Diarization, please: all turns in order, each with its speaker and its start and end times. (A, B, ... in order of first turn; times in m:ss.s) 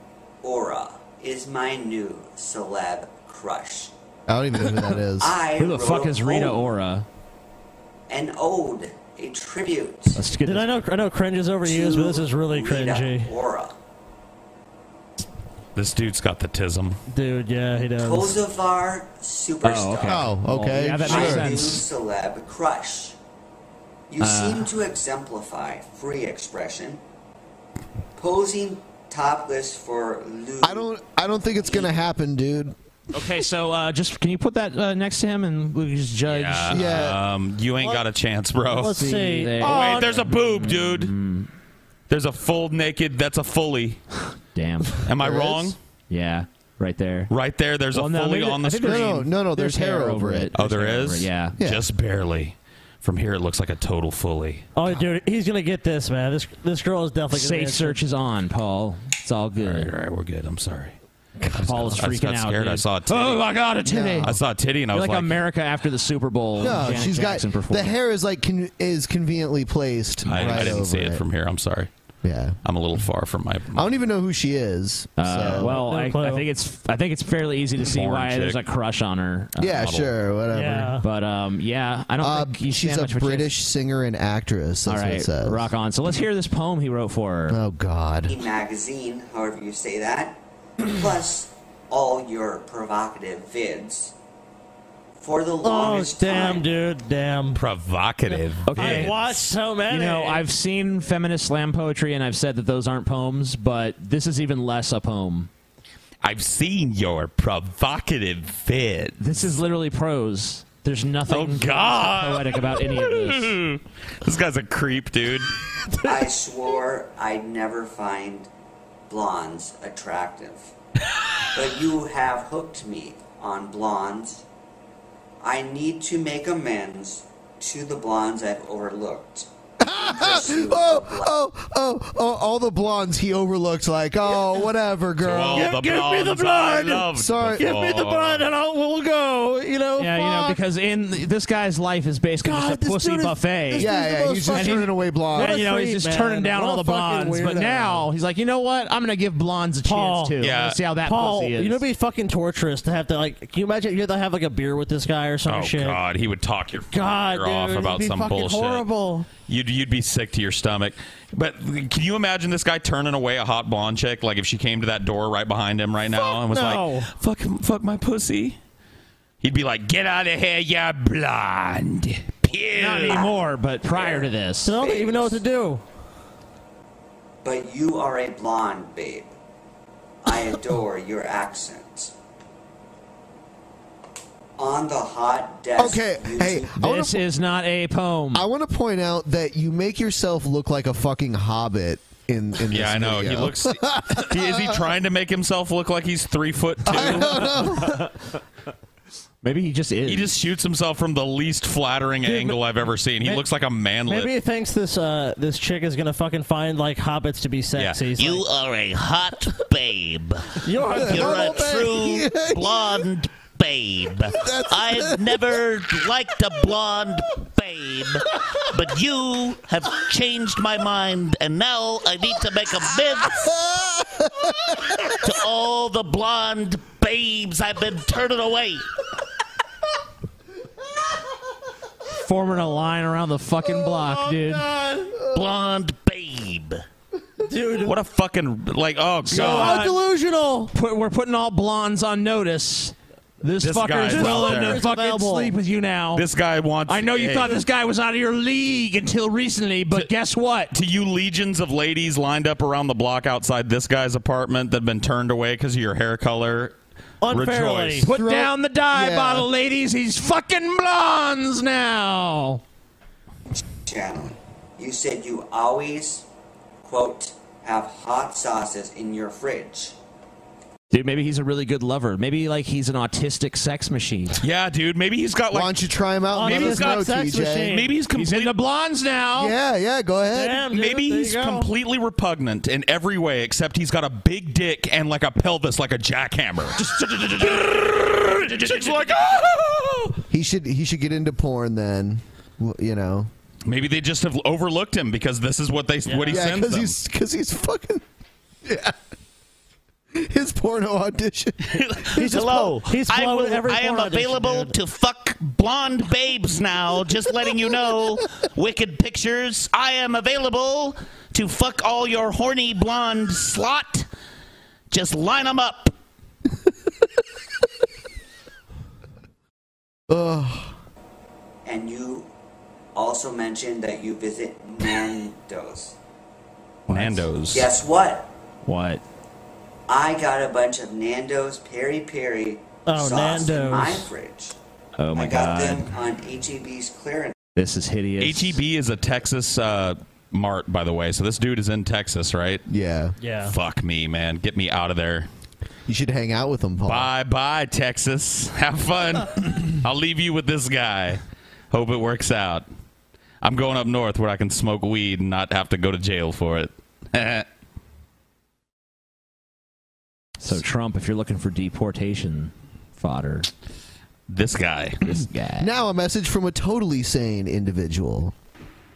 0:00.4-0:03.9 A
0:04.3-0:05.4 B
0:05.2-0:06.7 A
0:05.6-0:07.0 C
0:08.1-0:10.2 A
0:10.1-0:10.7 C
0:10.4-0:13.3 D
0:11.6-0:13.7 A
0:15.8-0:17.0 E
0:17.1-0:18.4 D
0:18.0-0:20.3 A
0:19.6-0:21.8 C
0:20.0-0:21.7 B
0:21.0-0:23.2 A
0:24.1-0:27.0 A
0:24.2-0:24.7 C
0:28.2-0:30.9 A
0:30.6-0:32.7 B
0:33.1-0:37.1 C
0:36.2-0:39.1 E
0:36.7-0:37.2 B
0:38.7-0:40.2 D
0:38.9-0:41.5 C
0:39.6-0:41.1 E
0:42.1-0:44.0 E
0:44.5-0:45.1 C
0:45.0-0:45.8 E
0:45.2-0:45.7 B
0:46.1-0:47.3 C
0:47.3-0:49.2 E
0:47.9-0:51.5 C
0:48.8-0:50.5 B
0:50.5-0:54.7 E
0:51.6-0:51.8 B
0:54.8-0:58.0 D
0:57.3-0:59.9 C
0:59.6-1:01.0 E
1:01.4-1:01.7 B
1:01.5-1:03.4 E
1:01.6-1:04.4 C
1:03.8-1:04.3 B
1:04.2-1:05.4 E
1:04.9-1:07.9 C
1:06.6-1:11.2 B
1:10.2-1:11.9 E
1:10.4-1:10.7 C
1:12.2-1:12.6 B
1:12.6-1:13.9 E
1:13.7-1:15.8 B
1:15.2-1:20.1 C
1:15.6-1:16.4 D
1:17.8-1:18.6 E
1:19.6-1:21.0 B
1:20.5-1:21.0 D
1:21.0-1:23.5 C
1:22.2-1:25.7 B
1:24.9-1:27.6 C
1:27.5-1:28.4 B
1:28.3-1:34.1 A
1:35.2-1:36.7 A
1:35.6-1:37.6 D
1:37.5-1:39.3 E
1:38.7-1:45.5 C
1:38.8-1:40.4 D
1:46.2-1:49.2 E
1:49.2-1:53.6 C
1:51.3-1:55.5 E
1:56.0-1:58.5 A
1:59.1-2:00.7 A
2:01.5-2:04.4 A
2:05.4-2:11.3 A
2:09.8-2:15.8 B
2:15.2-2:18.5 E
2:15.5-2:20.6 D
2:17.1-2:17.6 B
2:20.0-2:23.9 C
2:22.4-2:28.1 D
2:23.7-2:25.6 B
2:24.5-2:31.8 C
2:29.8-2:30.4 D
2:30.4-2:30.8 E
2:31.0-2:36.0 D
2:35.4-2:38.8 E
2:36.9-2:39.3 D
2:39.5-2:48.6 E
2:46.1-2:47.1 D
2:49.4-2:53.3 E
2:52.7-2:54.8 C
2:53.1-2:55.4 A
2:54.6-2:55.8 D
2:57.4-2:59.3 A
3:00.2-3:02.1 A
3:04.6-3:06.8 A
3:05.8-3:07.2 B
3:06.8-3:08.4 C
3:08.3-3:14.8 B
3:12.7-3:17.8 E
3:16.8-3:18.1 B
3:19.4-3:20.3 C
3:20.0-3:24.3 E
3:24.1-3:28.4 D
3:27.8-3:28.4 E
3:28.2-3:30.3 F
3:30.6-3:31.7 D
3:30.9-3:33.0 B
3:31.0-3:38.0 F
3:31.2-3:32.2 E
3:34.3-3:35.5 B
3:35.0-3:35.3 E
3:36.4-3:36.9 E
3:38.8-3:43.2 F
3:40.2-3:40.8 E
3:42.3-3:43.0 E
3:45.3-3:48.8 F
3:45.6-3:48.7 E
3:52.2-3:54.7 C
3:53.8-3:55.1 D
3:55.3-3:56.6 F
3:55.3-3:56.6 E
3:57.4-3:57.9 D
3:57.8-3:59.8 E
3:59.3-4:00.0 C
3:59.3-4:00.7 D
4:00.7-4:06.2 C
4:03.6-4:04.8 E
4:04.1-4:05.5 D
4:06.1-4:07.6 E
4:06.9-4:10.7 C
4:10.7-4:16.7 E
4:17.2-4:18.1 D
4:17.3-4:18.1 E
4:18.0-4:22.6 C
4:18.1-4:19.5 B
4:23.8-4:26.2 A
4:26.8-4:30.0 A
4:30.9-4:34.4 C
4:34.4-4:35.8 E
4:35.5-4:37.8 B
4:36.3-4:37.9 D
4:36.4-4:38.5 E
4:38.1-4:39.5 C
4:39.4-4:40.6 B
4:40.3-4:41.7 D
4:40.7-4:46.8 E
4:46.8-4:49.3 C
4:48.6-4:49.3 E
4:50.3-4:53.3 B
4:53.6-4:57.0 E
4:56.1-4:56.4 D
4:56.3-4:58.0 B
4:58.6-4:58.9 B
5:00.1-5:02.4 B
5:01.7-5:04.3 E
5:02.2-5:04.8 D
5:02.3-5:14.0 F
5:05.9-5:08.1 E
5:14.9-5:15.9 F
5:20.1-5:20.8 B
5:21.6-5:22.3 A
5:22.9-5:25.9 A
5:26.9-5:27.3 C
5:26.9-5:27.7 E
5:27.5-5:28.3 A
5:28.6-5:29.0 C
5:29.9-5:34.6 A
5:32.8-5:34.1 D
5:35.0-5:35.9 C
5:35.1-5:37.3 A
5:37.6-5:38.6 C
5:38.2-5:42.6 E
5:42.7-5:43.1 B
5:43.2-5:43.5 D
5:43.5-5:45.3 E
5:45.9-5:47.1 B
5:46.8-5:52.6 E
5:53.4-5:57.4 E
6:00.4-6:03.5 C
6:04.3-6:05.0 E
6:05.0-6:05.7 C
6:05.6-6:08.3 B